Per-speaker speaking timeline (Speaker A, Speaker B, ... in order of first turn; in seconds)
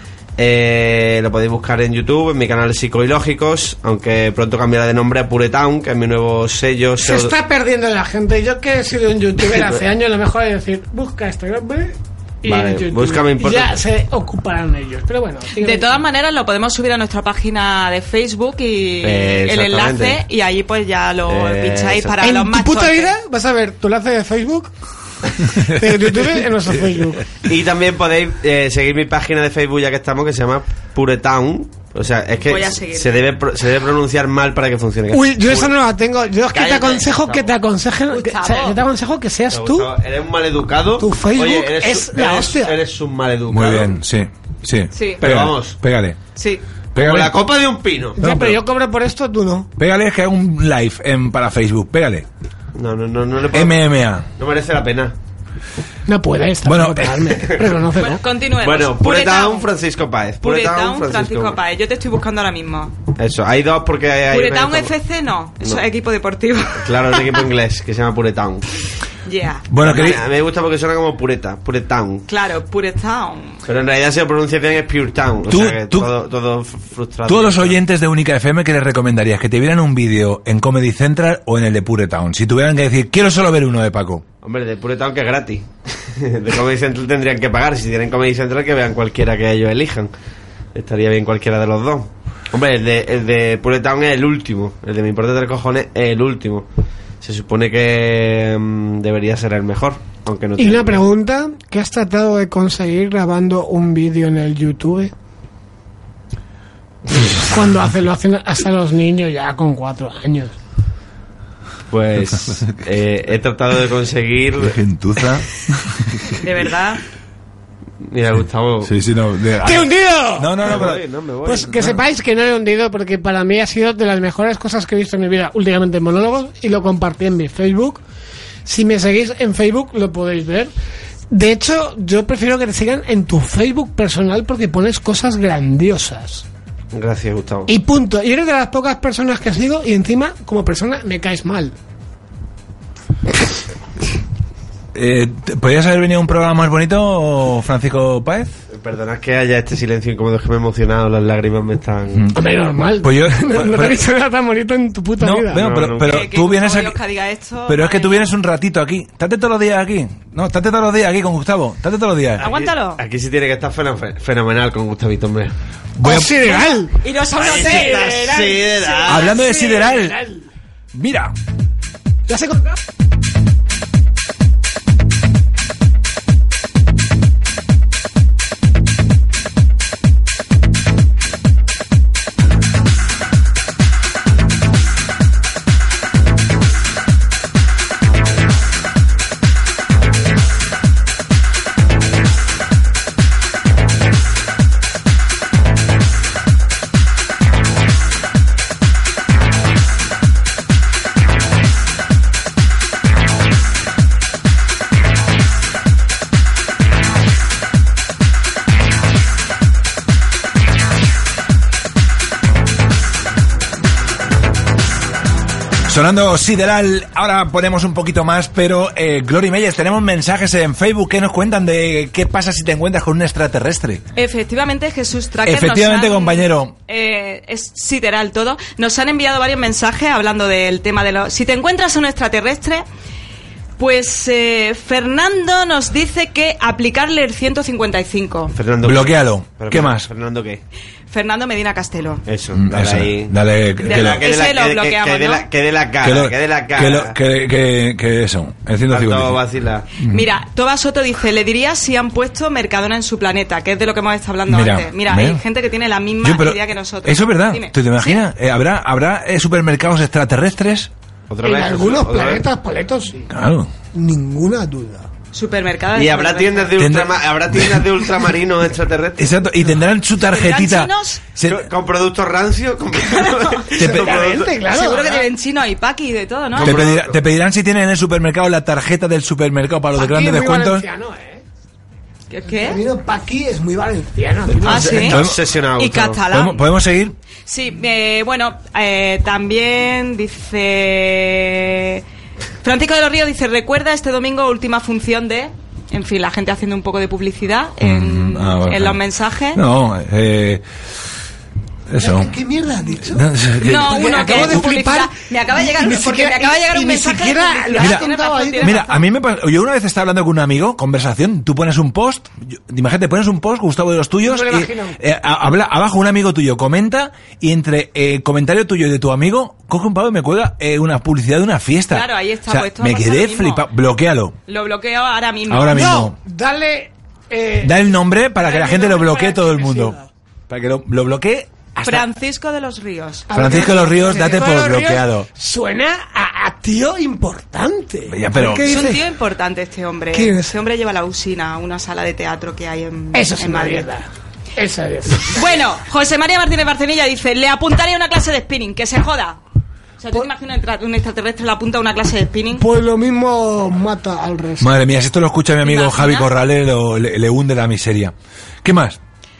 Speaker A: 0.4-7.3, 9.4-9.8, 12.4-13.7, 19.0-20.2, 21.2-22.2, 27.4-35.7, 36.5-37.5, 39.5-44.0, 45.2-45.8, 46.9-48.2, 52.7-55.1, 57.2-57.8, 58.6-61.6, 63.1-64.9, 66.8-68.7, 69.8-72.3, 73.7-77.8, 84.4-90.1, 90.7-96.7, 97.2-101.0, 111.9-114.8, 118.0-118.9, 120.6-121.9, 136.9-137.7, 148.7-152.3, 155.5-156.3, 162.4-165.5, 167.3-169.4, 238.5-240.6, 242.3-247.2, 248.9-249.9, 261.3-262.4, 265.9-269.3, 271.4-274.5, 276.5-277.2, 284.6-286.2
Speaker B: 7.0-16.0, 22.2-24.7, 25.4-27.3, 35.1-39.9, 41.0-42.8, 48.1-49.7, 56.0-58.2, 100.6-105.1, 107.3-110.5, 119.6-120.8, 121.4-128.0, 128.7-130.7, 131.3-136.4, 137.7-141.7, 152.3-155.7, 166.0-170.4, 172.3-172.7, 261.4-263.3, 263.9-265.1, 273.8-275.3, 279.9-281.4, 282.6-285.1, 302.0-308.8, 314.2-315.0, 325.7-330.1, 333.3-339.1, 340.1-340.5, 343.1-345.4, 352.5-354.7
Speaker C: 15.5-23.1, 32.4-33.2, 38.1-38.8, 44.9-45.2, 46.4-46.6, 58.0-59.7, 60.4-62.9, 64.3-67.4, 69.2-69.7, 72.3-73.6, 116.3-117.0, 156.0-158.3, 162.4-163.0, 166.4-168.3, 224.1-232.8, 233.8-238.5, 241.1-242.2, 243.8-245.4, 249.9-258.2, 265.3-266.8, 270.2-271.2, 273.0-273.8, 274.7-276.8, 282.3-282.8, 284.6-286.6, 287.5-292.0, 292.6-299.6, 303.6-309.0, 321.9-323.7, 324.5-325.9, 331.8-334.4, 338.6-343.9, 345.3-349.4, 350.0-352.6, 355.6-356.3
Speaker D: 43.5-46.2, 47.0-47.3, 48.2-48.6, 49.8-52.2, 53.5-54.3, 56.6-57.2, 69.7-70.2, 75.5-76.1, 77.3-84.2, 114.6-116.3, 118.8-121.0, 144.9-148.5, 153.0-154.0, 155.2-156.9, 157.7-162.4, 165.9-166.4, 169.1-170.2, 170.9-171.3, 215.9-224.0, 225.4-226.7, 238.8-240.1, 242.5-244.2, 246.0-249.4, 254.5-255.4, 256.2-260.9, 263.3-263.7, 266.8-267.8, 269.2-271.6, 273.8-274.2, 276.6-280.8, 284.9-285.4, 286.3-287.1, 297.8-299.0, 299.5-300.6, 301.9-302.4, 302.9-304.6, 307.8-308.1, 308.6-324.4, 325.5-326.1, 327.6-329.9, 330.5-332.1, 333.3-335.3, 338.1-338.8, 354.6-359.0